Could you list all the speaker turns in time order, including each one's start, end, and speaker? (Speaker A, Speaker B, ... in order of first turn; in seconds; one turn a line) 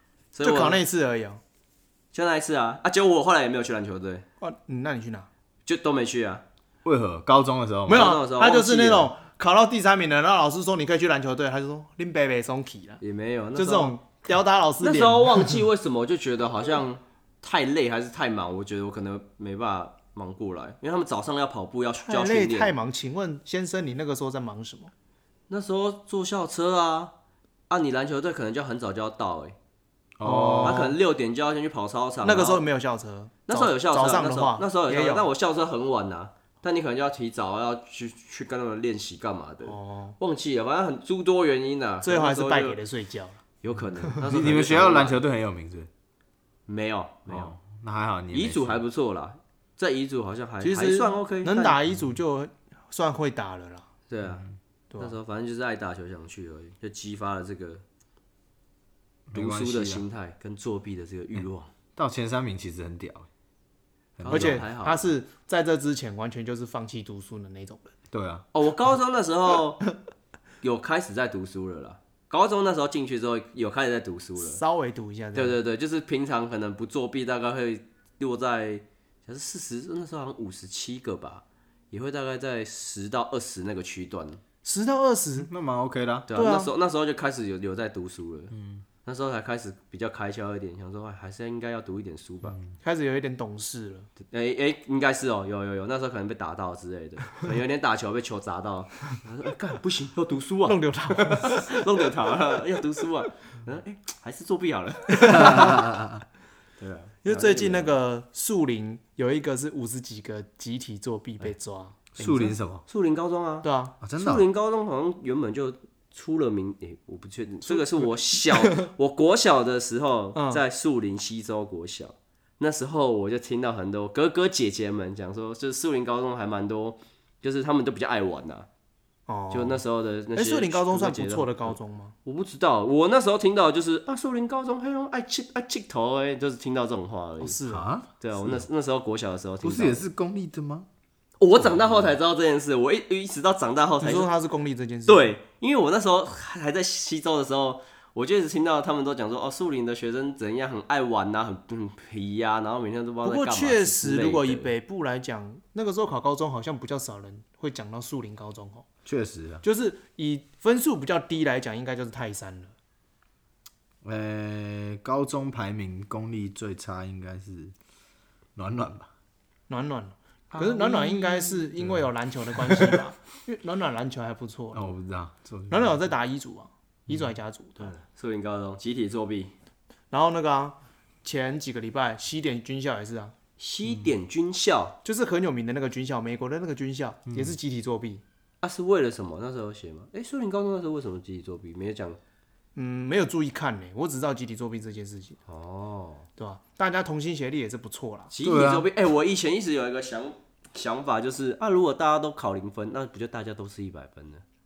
Speaker A: 0.3-0.8
Speaker B: 0.4-1.4
Speaker A: 2.1-4.2
Speaker B: 4.4-5.3
Speaker A: 5.7-6.4
Speaker C: 6.8-8.1
Speaker B: 7.9-13.0
Speaker A: 7.9-9.1
Speaker A: 13.0-14.0
Speaker B: 13.5-15.5
Speaker A: 14.8-22.7
Speaker B: 22.0-24.9
Speaker A: 25.5-27.1
Speaker A: 27.7-29.6
Speaker C: 30.2-30.9
Speaker B: 30.2-30.9
Speaker A: 30.6-32.6
Speaker B: 32.2-35.3
Speaker A: 33.5-42.8
Speaker B: 39.6-40.2
Speaker B: 42.0-43.4
Speaker A: 43.6-45.2
Speaker C: 44.2-45.9
Speaker A: 46.7-47.5
Speaker C: 47.3-48.8
Speaker A: 48.3-51.8
Speaker B: 50.6-53.9
Speaker A: 54.1-54.4
Speaker A: 55.0-57.8
Speaker C: 59.3-60.0
Speaker A: 59.3-61.7
Speaker C: 62.0-63.3
Speaker C: 64.2-64.6
Speaker A: 64.2-65.1
Speaker B: 64.3-67.9
Speaker C: 68.1-68.4
Speaker A: 68.5-69.8
Speaker A: 70.6-74.6
Speaker B: 74.4-75.6
Speaker A: 75.3-84.4
Speaker B: 84.6-85.5
Speaker C: 85.4-86.3
Speaker A: 86.3-88.5
Speaker B: 86.3-86.7
Speaker C: 88.5-88.8
Speaker A: 89.0-92.6
Speaker B: 92.8-94.1
Speaker A: 94.3-105.8
Speaker B: 100.7-101.7
Speaker B: 105.3-105.6
Speaker C: 105.3-106.2
Speaker A: 106.8-107.9
Speaker B: 107.2-112.0
Speaker C: 112.2-112.8
Speaker A: 112.2-128.7
Speaker B: 113.6-114.0
Speaker C: 114.0-114.4
Speaker B: 117.7-118.9
Speaker B: 120.3-120.6
Speaker B: 129.3-129.8
Speaker A: 129.5-131.7
Speaker B: 130.3-132.2
Speaker A: 132.2-137.6
Speaker B: 137.4-137.9
Speaker C: 137.7-138.6
Speaker A: 138.2-140.0
Speaker C: 139.6-140.9
Speaker A: 141.4-144.3
Speaker B: 144.0-145.3
Speaker A: 145.1-154.7
Speaker B: 153.2-158.8
Speaker C: 159.1-159.6
Speaker B: 159.6-162.7
Speaker C: 164.0-167.7
Speaker C: 168.6-169.1
Speaker B: 169.7-174.9
Speaker A: 170.5-171.7
Speaker C: 174.7-176.0
Speaker B: 175.7-177.9
Speaker A: 177.8-179.5
Speaker B: 180.1-183.3
Speaker A: 183.6-184.9
Speaker B: 185.0-188.2
Speaker C: 187.3-187.6
Speaker A: 188.6-192.2
Speaker B: 192.8-195.4
Speaker A: 195.5-196.2
Speaker B: 196.4-198.3
Speaker A: 198.3-204.4
Speaker C: 198.4-198.9